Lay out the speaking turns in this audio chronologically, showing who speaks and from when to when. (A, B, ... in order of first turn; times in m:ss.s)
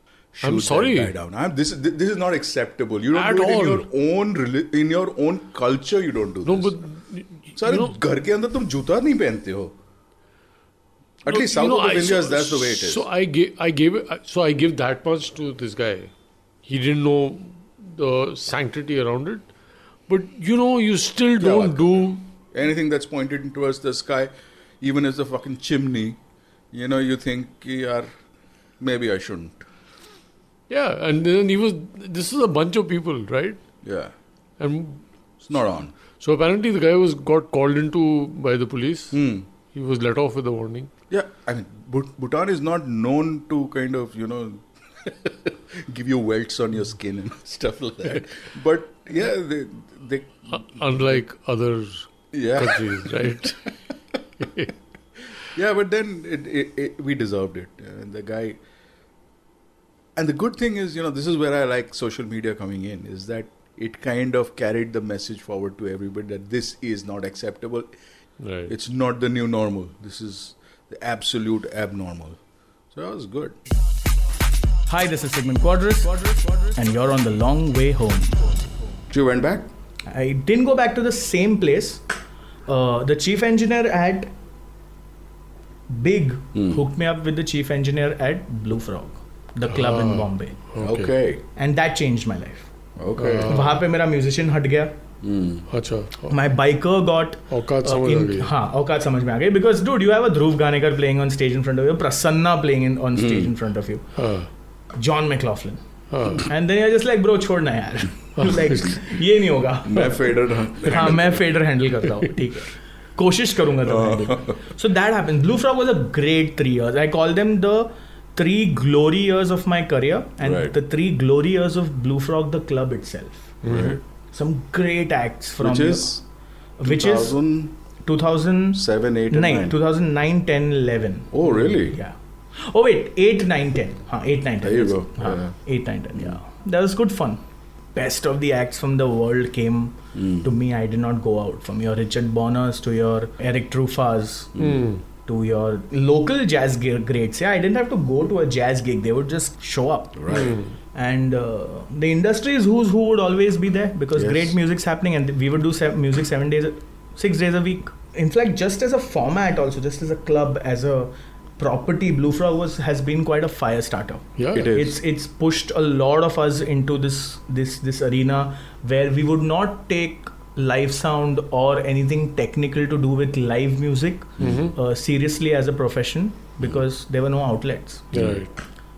0:00.4-0:06.8 A
0:00.4-0:01.1 B
0:03.1-0:03.9 B
0:06.4-0:08.0 B
0:07.6-0:09.8 A
0:11.2-0:13.1 A
0:11.3-0:16.1 B
0:16.7-0:19.5 B
0:20.1-0:22.2 B
0:21.4-0:22.0 A
0:22.5-0:26.2 A
0:26.7-0:28.1 A
0:28.8-0:29.6 A
0:30.7-0:33.6 B
0:33.8-0:34.1 A
0:34.6-0:35.0 B
0:35.4-0:35.9 A
0:36.2-0:39.2 B
0:39.1-0:39.4 A
0:39.7-0:40.9 B
0:41.1-0:51.2 A
0:50.5-0:53.7 B
0:52.3-0:53.4 A
0:54.4-0:54.7 B
0:55.4-0:58.6 A
1:00.2-1:07.9 A
1:08.4-1:08.7 B
1:08.7-1:12.4 A
1:12.9-1:13.6 A
1:14.9-1:18.8 C
1:19.1-1:19.7 A
1:20.1-1:22.0 C
1:22.7-1:24.3 C
1:25.9-1:30.6 C
1:26.6-1:26.8 A
1:29.7-1:31.1 B
1:30.8-1:31.4 A
1:31.6-1:32.7 C
1:33.0-1:33.6 A
1:33.2-1:33.8 B
1:33.5-1:35.0 C
1:35.2-1:35.7 A
1:35.7-1:36.4 B
1:36.3-1:44.1 C
1:37.5-1:38.5 B
1:43.2-1:43.5 A
1:44.2-1:44.5 B
1:45.0-1:45.8 C
1:46.1-1:46.5 B
1:46.4-2:03.6 C
1:49.8-1:51.4 A
1:53.8-1:54.6 A
2:00.4-2:00.7 A
2:03.6-2:04.0 B
2:03.6-2:04.0 A
2:04.3-2:06.2 C
2:05.6-2:06.2 A
2:06.8-2:07.4 C
2:06.8-2:07.7 A
2:08.0-2:11.3 C
2:08.7-2:09.8 A
2:11.3-2:12.0 A
2:11.9-2:17.4 C
2:14.6-2:15.6 A
2:18.0-2:24.5 C
2:20.2-2:20.5 A
2:24.6-2:24.8 A
2:24.6-2:25.0 B
2:25.3-2:30.4 C
2:30.2-2:30.6 A
2:30.3-2:30.7 B
2:30.9-2:58.1 C
2:34.2-2:34.6 A
2:44.4-2:44.7 B
2:44.5-2:45.0 A
2:54.4-2:54.7 A
2:54.4-2:54.7 B
2:58.1-2:58.5 B
2:58.1-2:58.4 A